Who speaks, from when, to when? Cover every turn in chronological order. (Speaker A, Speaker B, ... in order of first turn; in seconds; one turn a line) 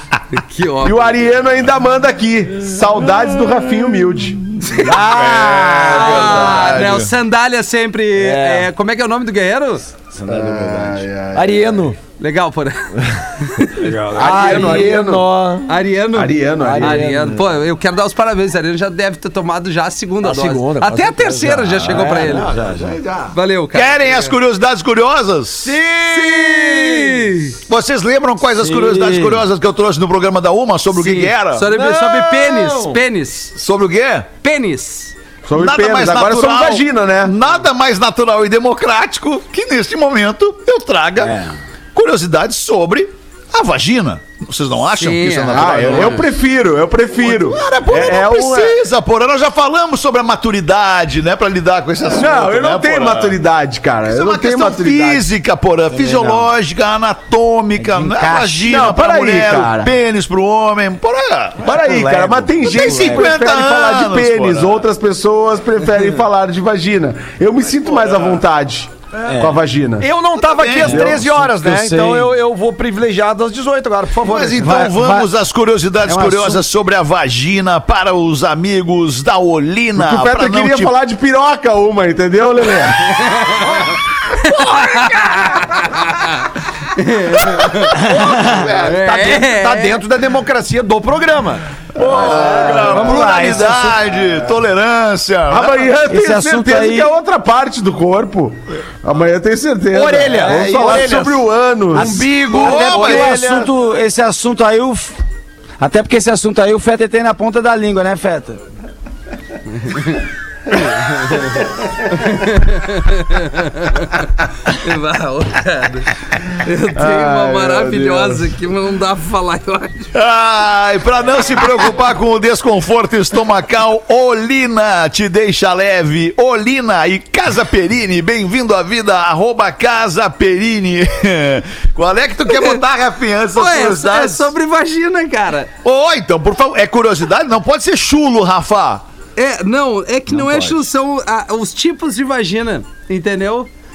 Speaker A: 0.3-1.3
Speaker B: 0.8-4.4
Speaker C: 4.6-7.1
Speaker A: 4.6-9.9
Speaker D: 4.8-6.8
Speaker D: 8.2-8.7
Speaker E: 10.1-11.1
Speaker B: 10.3-11.9
Speaker D: 11.3-12.0
Speaker A: 12.2-14.5
Speaker D: 14.1-15.8
Speaker B: 14.1-15.3
Speaker A: 15.7-22.6
Speaker B: 16.1-17.0
Speaker D: 16.6-17.5
Speaker D: 20.2-23.3
Speaker E: 21.9-22.9
Speaker A: 23.3-24.3
Speaker C: 23.7-25.8
Speaker D: 25.6-27.4
Speaker A: 26.1-27.6
Speaker C: 27.7-31.7
Speaker E: 28.6-29.4
Speaker A: 30.9-33.5
Speaker D: 31.7-33.0
Speaker C: 33.5-34.3
Speaker A: 34.4-35.1
Speaker B: 35.4-37.3
Speaker C: 35.5-41.4
Speaker E: 41.2-41.5
Speaker C: 41.9-46.2
Speaker A: 45.0-46.2
Speaker B: 45.5-48.8
Speaker C: 47.2-53.4
Speaker B: 52.1-55.2
Speaker C: 54.1-61.7
Speaker E: 56.0-56.5
Speaker E: 57.8-58.7
Speaker B: 58.6-59.9
Speaker B: 61.6-70.1
Speaker E: 61.6-62.9
Speaker C: 62.6-64.9
Speaker D: 69.2-74.9
Speaker E: 69.3-69.6
Speaker C: 70.5-71.1
Speaker B: 70.8-71.2
Speaker E: 71.0-72.3
Speaker C: 74.2-81.0
Speaker E: 74.6-75.3
Speaker E: 76.0-76.6
Speaker B: 80.0-83.4
Speaker C: 84.4-86.1
Speaker A: 84.4-86.4
Speaker A: 86.9-88.1
Speaker C: 87.3-89.0
Speaker D: 88.1-91.6
Speaker A: 88.7-90.0
Speaker C: 92.0-95.9
Speaker B: 92.0-93.1
Speaker E: 92.2-94.0
Speaker D: 92.4-92.8
Speaker B: 95.5-102.3
Speaker E: 96.1-97.1
Speaker D: 99.9-103.7
Speaker E: 100.5-100.9
Speaker E: 102.0-105.2
Speaker C: 102.5-103.4
Speaker E: 105.8-108.6
Speaker A: 111.0-111.4
Speaker A: 112.2-120.1
Speaker B: 117.0-118.4
Speaker C: 120.1-134.5
Speaker A: 132.5-132.8
Speaker A: 133.6-135.7
Speaker C: 135.8-139.1
Speaker A: 139.4-143.7
Speaker E: 140.4-140.7